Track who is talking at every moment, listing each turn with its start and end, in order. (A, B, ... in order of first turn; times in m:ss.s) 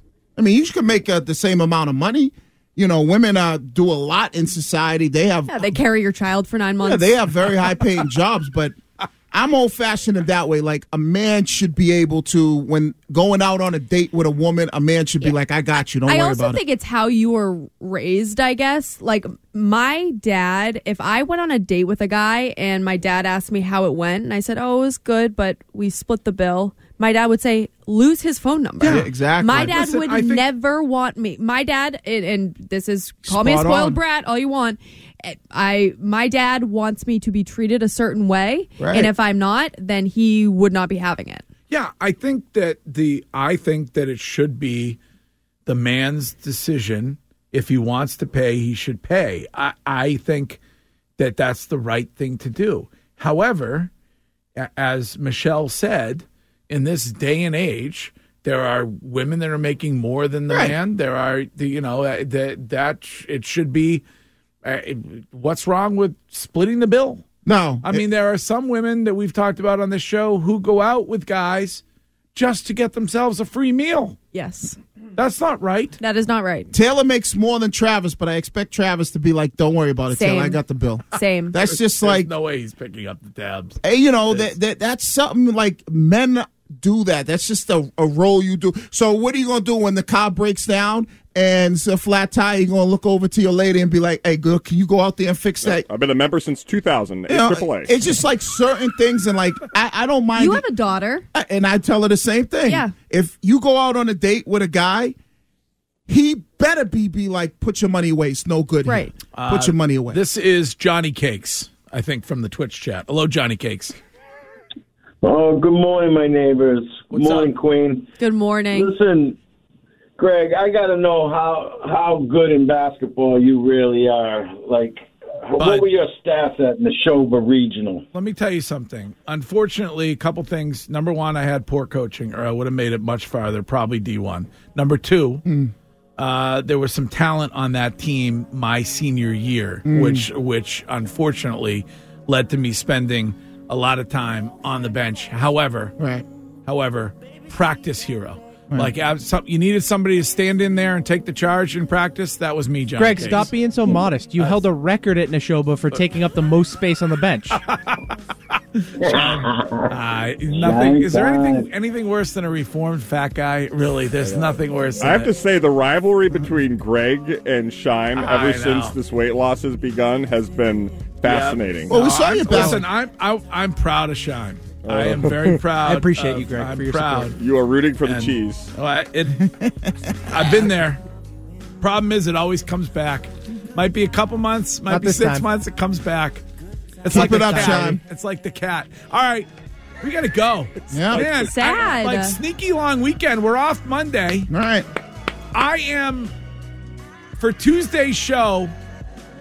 0:00.4-0:05.7 A
0:05.5-0:07.1 B
0:06.8-0:08.8 A
0:09.3-0:16.6 A
0:16.1-0:41.4 B
0:28.8-0:30.5 C
0:28.8-0:29.8 A
0:33.3-0:34.0 A
0:38.8-0:39.1 A
0:41.7-0:45.0 C
0:45.7-0:50.6 C
0:51.2-0:53.9 C
0:54.6-1:04.0 C
1:00.5-1:00.8 A
1:04.6-1:07.2 C
1:07.4-1:08.0 A
1:07.8-1:11.8 C
1:12.3-1:14.2 C
1:14.3-1:14.8 B
1:15.2-1:16.0 C
1:16.0-1:16.7 B
1:16.7-1:22.3 A
1:20.1-1:20.6 B
1:21.1-1:21.6 B
1:21.6-1:24.5 C
1:23.8-1:35.9 A
1:35.6-1:37.9 D
1:37.3-1:40.6 A
1:40.4-1:41.3 B
1:41.3-1:45.1 A
1:42.7-1:42.9 B
1:46.1-1:50.2 A
1:48.8-1:49.2 B
1:49.3-1:54.0 C
1:55.2-1:58.1 E
1:57.1-1:57.6 C
1:58.2-1:59.0 B
1:58.7-1:59.4 E
2:00.2-2:08.0 E
2:05.6-2:05.9 C
2:08.1-2:15.4 C
2:15.4-2:15.7 A
2:16.2-2:26.0 C
2:19.8-2:20.3 A
2:26.0-2:26.3 A
2:26.6-2:33.7 C
2:33.0-2:37.6 F
2:34.3-2:34.6 C
2:37.5-2:38.1 C
2:38.8-2:45.3 C
2:39.0-2:39.9 E
2:40.5-2:41.7 E
2:45.0-2:52.0 D
2:48.1-2:49.0 C
2:51.2-2:57.4 C
2:51.9-2:52.9 A
2:54.8-2:55.4 D
2:55.5-2:57.3 F
2:57.4-2:58.7 D
2:58.0-2:59.4 C
2:59.4-2:59.9 A
3:00.3-3:01.0 C
3:01.8-3:06.4 C
3:04.9-3:05.5 F
3:07.0-3:09.5 C
3:07.1-3:08.0 A
3:07.2-3:07.9 F
3:10.0-3:14.5 C
3:10.9-3:11.3 A
3:11.1-3:12.4 B
3:14.5-3:14.9 A
3:15.5-3:16.3 C
3:17.4-3:18.7 C